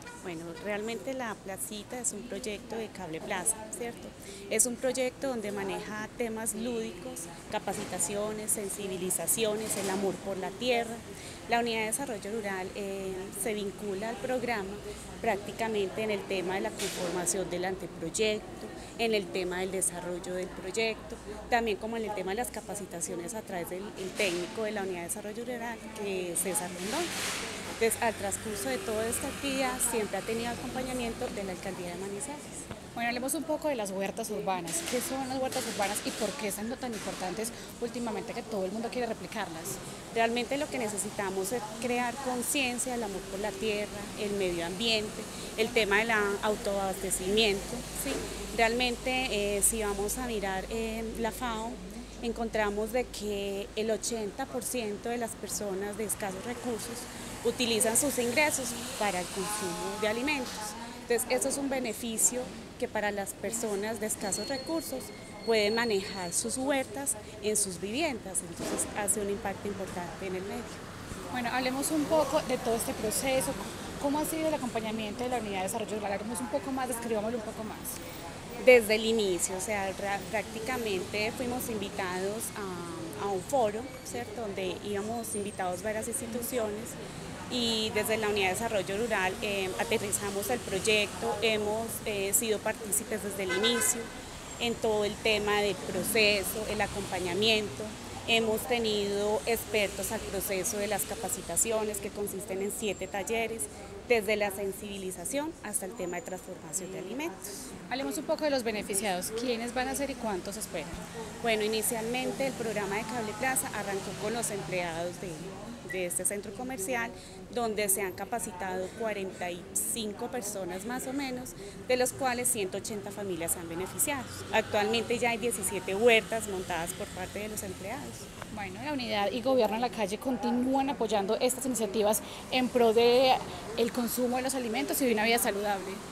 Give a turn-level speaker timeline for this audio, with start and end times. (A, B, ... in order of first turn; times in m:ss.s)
0:00.2-0:27.1 A
0:27.8-0:32.6 A
0:33.0-0:39.8 B
0:40.1-1:10.8 A
1:11.3-1:18.0 B
1:18.6-1:27.0 A
1:27.5-1:47.6 A
1:47.9-1:51.0 B
1:51.4-2:08.3 A
2:08.5-2:16.0 B